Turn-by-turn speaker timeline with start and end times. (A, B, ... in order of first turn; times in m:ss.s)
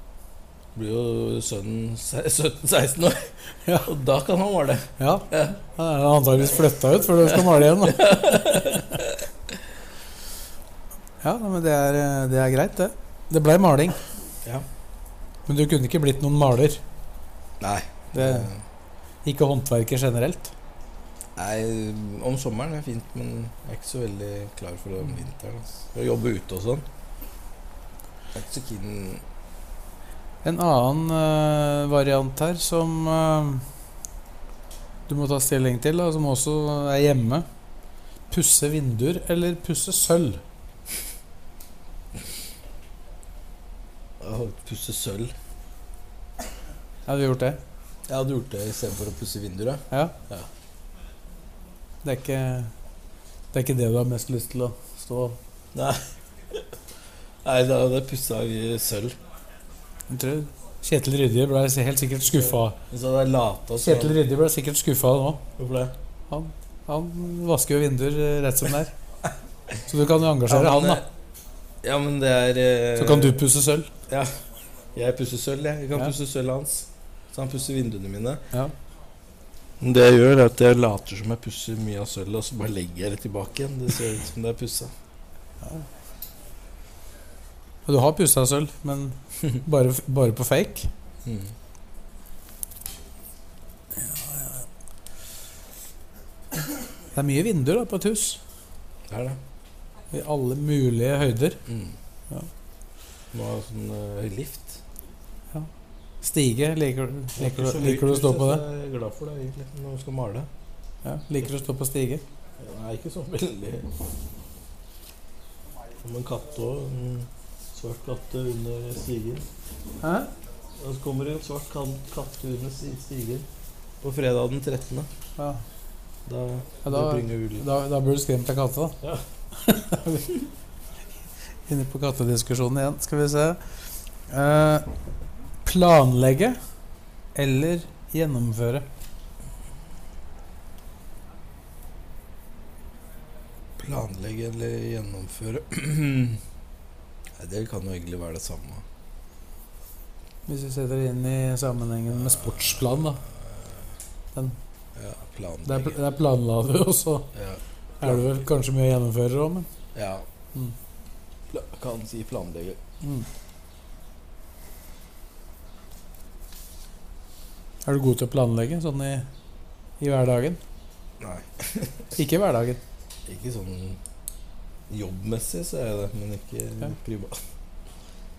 0:00.7-0:05.6 A
0:05.0-0:08.7 B
0:07.2-0:09.2 A
0:11.2-0:14.0 B
0:15.5-0:16.8 B
0:17.6-0:18.6 A
0:18.1-0:18.5 B
0:19.2-0:20.5 B
0:21.4-0:26.8 A
0:28.3-0:29.2 A
0:30.4-0:33.6 B
0:35.1-0:37.4 B
0:38.3-0:40.4 B
0:44.2-0:45.3 A
0:47.1-0:47.6 B
0:48.1-0:50.5 A
0:52.0-0:52.7 B
0:53.5-0:55.4 B
0:55.7-0:56.6 A
0:57.4-0:59.2 A
1:00.1-1:02.8 B
1:02.3-1:04.2 A
1:03.8-1:05.4 B
1:05.6-1:05.9 A
1:06.3-1:08.9 B
1:09.9-1:11.0 B
1:10.4-1:11.0 A
1:11.8-1:13.4 A
1:12.9-1:13.9 B
1:14.1-1:14.3 A
1:14.9-1:18.4 A
1:19.8-1:24.9 A
1:27.8-1:30.9 B
1:31.2-1:31.5 A
1:34.0-1:34.6 B
1:37.1-1:38.4 B
1:39.1-1:39.4 A
1:40.1-1:41.6 B
1:41.7-1:41.9 A
1:43.3-1:44.8 A
1:46.2-1:48.6 B
1:47.4-1:50.5 A
1:51.0-1:52.2 B
1:52.6-1:53.9 A
1:56.0-1:59.4 A
2:00.0-2:00.3 B
2:00.8-2:03.4 A
2:04.0-2:05.1 A
2:05.4-2:05.6 B
2:06.2-2:07.6 A
2:06.8-2:09.0 B
2:09.6-2:10.3 B
2:11.7-2:13.6 B
2:14.3-2:14.8 B
2:15.6-2:16.6 B
2:17.3-2:18.8 B
2:23.8-2:26.4 A
2:27.4-2:28.8 A
2:30.5-2:33.2 B
2:32.1-2:33.7 A
2:34.9-2:36.0 A
2:35.6-2:37.3 B
2:37.3-2:38.3 A
2:38.0-2:39.7 B
2:39.9-2:40.2 A
2:41.5-2:42.8 A
2:43.0-2:43.3 B
2:47.8-2:49.2 B
2:50.0-2:50.6 B
2:51.2-2:52.1 A
2:52.1-2:52.8 B
2:53.2-2:54.0 A
2:54.9-2:57.4 A